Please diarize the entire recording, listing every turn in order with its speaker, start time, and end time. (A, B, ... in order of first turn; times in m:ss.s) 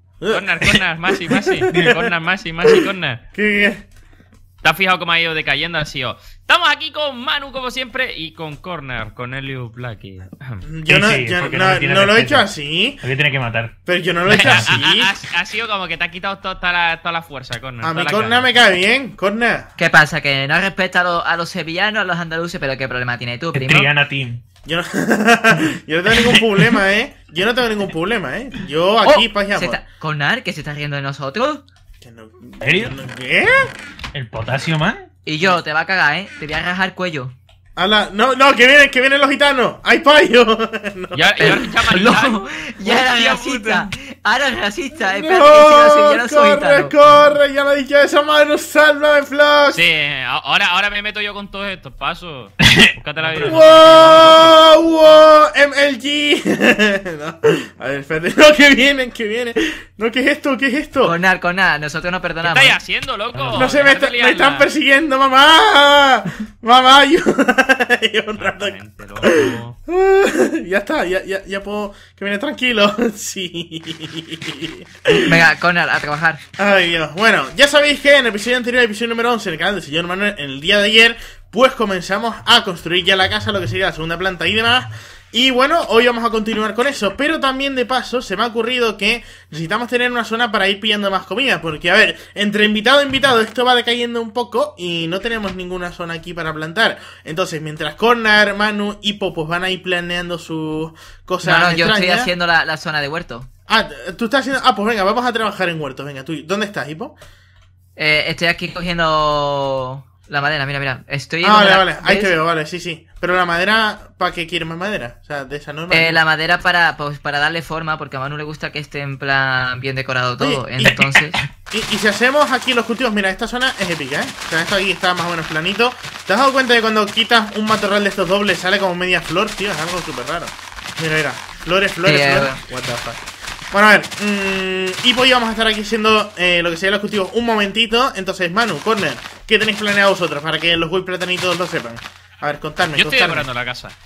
0:00.2-0:01.9 A
0:00.3-0:03.2 B
0:03.3-0:03.8 A
0:04.6-0:10.6 B
0:10.6-0:13.0 A
0:10.9-0:12.4 C
0:13.0-0:13.7 C
0:13.8-0:15.1 A
0:14.3-0:14.7 C
0:14.3-0:18.4 B
0:17.8-0:19.7 A
0:19.8-0:23.9 D
0:23.5-0:24.4 C
0:24.6-0:29.8 A
0:26.2-0:26.6 C
0:29.0-0:31.6 D
0:32.0-0:33.7 A
0:32.6-0:32.9 C
0:34.1-0:35.1 C
0:35.2-0:37.3 D
0:37.8-0:41.6 A
0:41.1-0:43.9 B
0:41.4-0:47.0 D
0:45.1-0:49.8 A
0:49.7-0:54.6 B
0:52.6-0:54.3 C
0:53.4-1:01.1 A
1:01.0-1:02.8 D
1:02.4-1:04.7 B
1:03.3-1:03.7 C
1:03.5-1:15.4 A
1:08.4-1:09.8 B
1:15.2-1:16.4 D
1:16.6-1:42.3 A
1:41.4-1:43.5 D
1:43.7-1:47.2 A
1:48.0-1:52.3 D
1:51.4-1:56.2 A
1:55.9-2:01.4 D
2:00.4-2:01.0 A
2:00.8-2:01.5 C
2:01.7-2:23.5 A
2:12.0-2:12.6 D
2:23.0-2:23.9 B